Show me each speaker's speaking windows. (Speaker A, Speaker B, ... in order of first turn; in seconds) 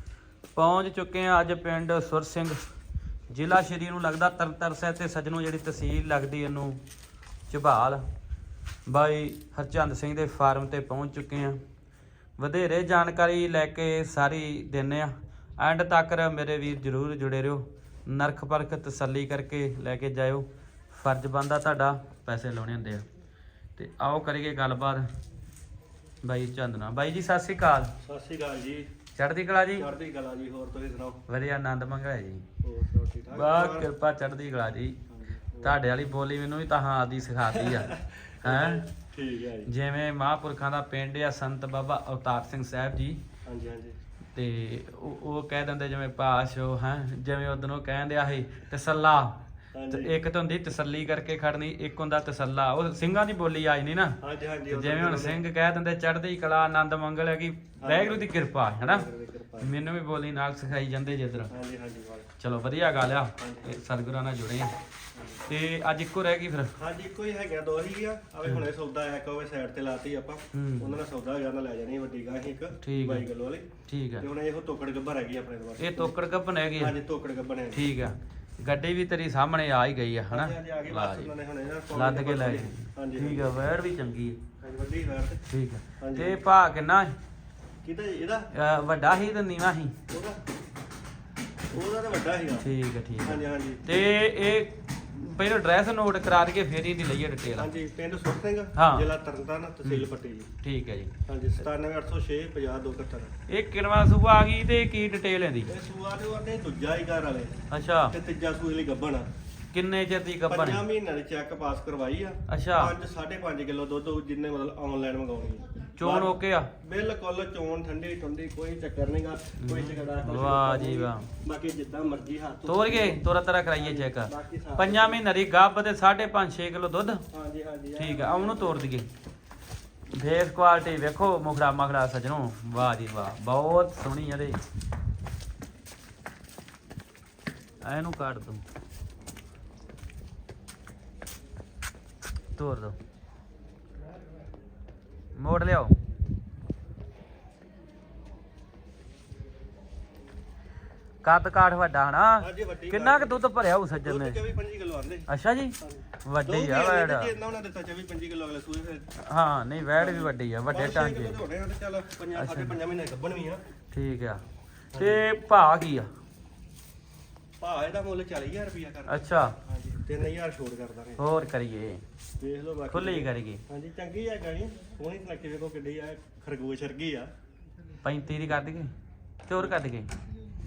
Speaker A: 0.6-2.6, 3.3-6.8, 7.5-8.0, 8.9-11.6, 12.4-23.1, 23.8-25.1, 26.2-27.9, 29.1-29.9, 31.3-32.5, 33.3-35.0, 35.6-38.9, 39.7-43.2, 44.4-49.4, 49.9-59.1, 59.6-61.5, 62.4-64.8, 65.5-66.7, 70.5-71.0, 72.8-73.3, 73.9-74.3, 75.8-77.0, 77.7-81.3, 81.9-84.4, 85.5-87.2, 88.5-90.0, 92.6-97.7, 98.8-99.1, 100.6-101.1, 103.5-105.7, 107.7-108.2, 109.7-110.8, 112.5-113.0, 116.0-116.7, 119.6-121.3, 122.7-127.2, 128.0-129.1, 130.1-134.6, 137.8-138.6, 142.6-143.0, 145.4-145.9, 151.2-154.4, 155.3-157.3, 159.2-161.4, 162.3-162.7, 163.9-164.4, 165.0-166.1, 169.1-169.6, 171.2-172.0, 172.9-173.6, 178.0-178.9, 179.5-180.1
Speaker B: 28.0-28.9, 29.8-31.2, 32.6-33.9, 35.1-35.8, 37.5-39.7, 43.5-44.0, 49.8-50.2, 54.2-55.4, 57.8-59.8, 61.5-62.3, 63.4-63.7, 65.1-65.5, 66.8-73.7, 74.2-76.2, 76.8-77.8, 80.3-83.5, 84.6-85.4, 86.0-86.4, 87.8-88.5, 90.1-90.4, 91.7-92.7, 93.2-94.0, 97.6-100.5, 101.3-103.3, 105.7-109.3, 110.5-123.2, 123.8-125.2, 127.3-128.8, 152.4-153.5, 154.0-155.3, 155.8-159.1, 160.0-163.6, 164.9-165.2, 167.6-171.2, 172.4-177.3